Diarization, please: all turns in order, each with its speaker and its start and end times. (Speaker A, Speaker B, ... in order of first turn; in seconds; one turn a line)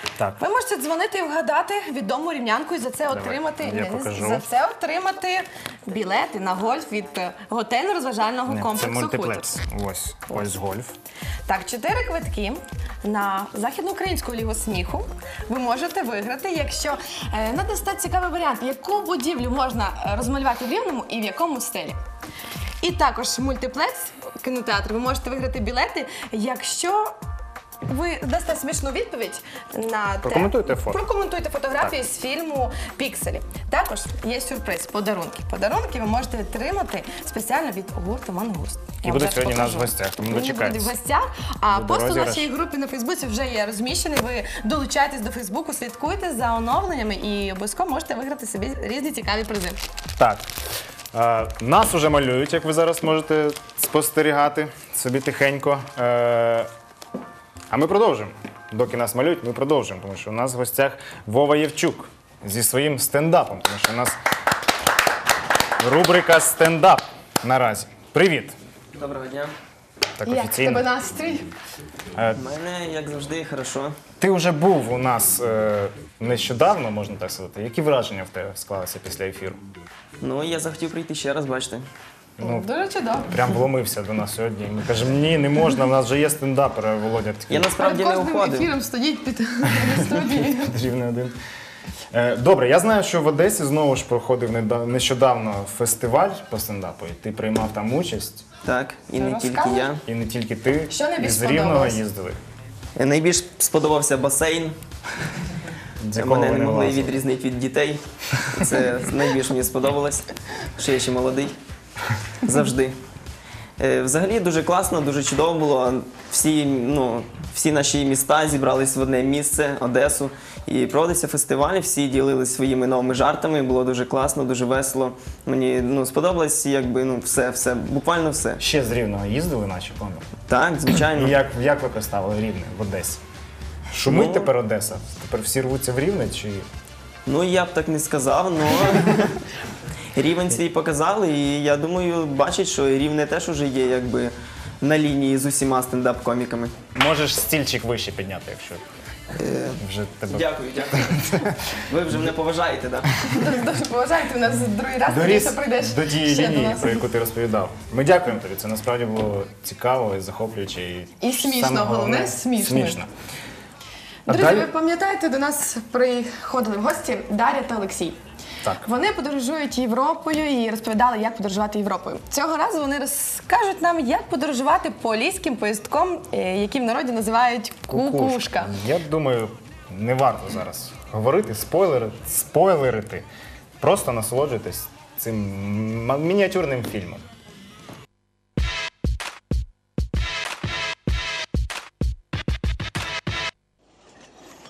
Speaker A: 0.4-9.5
Speaker B: 3.1-4.5
Speaker B: 8.5-10.9
Speaker A: 11.5-22.0
Speaker A: 22.8-27.1
Speaker A: 27.9-49.8
Speaker B: 30.2-31.0
Speaker B: 39.0-40.9
Speaker B: 41.7-42.5
Speaker B: 50.2-50.5
Speaker B: 51.1-56.7
Speaker B: 57.7-64.2
Speaker B: 65.8-68.6
Speaker C: 69.0-69.5
Speaker B: 70.2-70.9
Speaker A: 70.2-71.5
Speaker C: 72.4-74.0
Speaker B: 74.2-79.6
Speaker C: 80.2-81.8
Speaker B: 82.4-82.7
Speaker A: 82.4-83.4
Speaker B: 83.2-87.8
Speaker C: 87.5-88.7
Speaker A: 87.8-90.7
Speaker B: 89.8-91.3
Speaker B: 92.1-98.5
Speaker C: 98.6-100.0
Speaker A: 99.2-99.9
Speaker B: 100.0-102.4
Speaker A: 100.9-102.0
Speaker C: 103.0-104.8
Speaker B: 106.0-107.2
Speaker C: 106.2-111.6
Speaker C: 112.4-113.0
Speaker C: 113.8-128.6
Speaker B: 128.6-130.3
Speaker C: 130.5-131.3
Speaker B: 131.1-133.2
Speaker B: 133.9-136.7
Speaker C: 134.0-134.5
Speaker C: 137.3-139.3
Speaker C: 140.2-146.8
Speaker B: 146.9-148.8
Speaker C: 149.4-153.2
Speaker B: 149.8-152.2
Speaker A: 153.3-157.1
Speaker B: 155.1-163.1
Speaker A: 161.2-163.0
Speaker A: 164.3-168.2
Speaker B: 164.3-164.7
Speaker B: 168.6-168.9
Speaker A: 168.8-178.7
Speaker B: 177.9-183.3
Speaker B: 183.8-187.2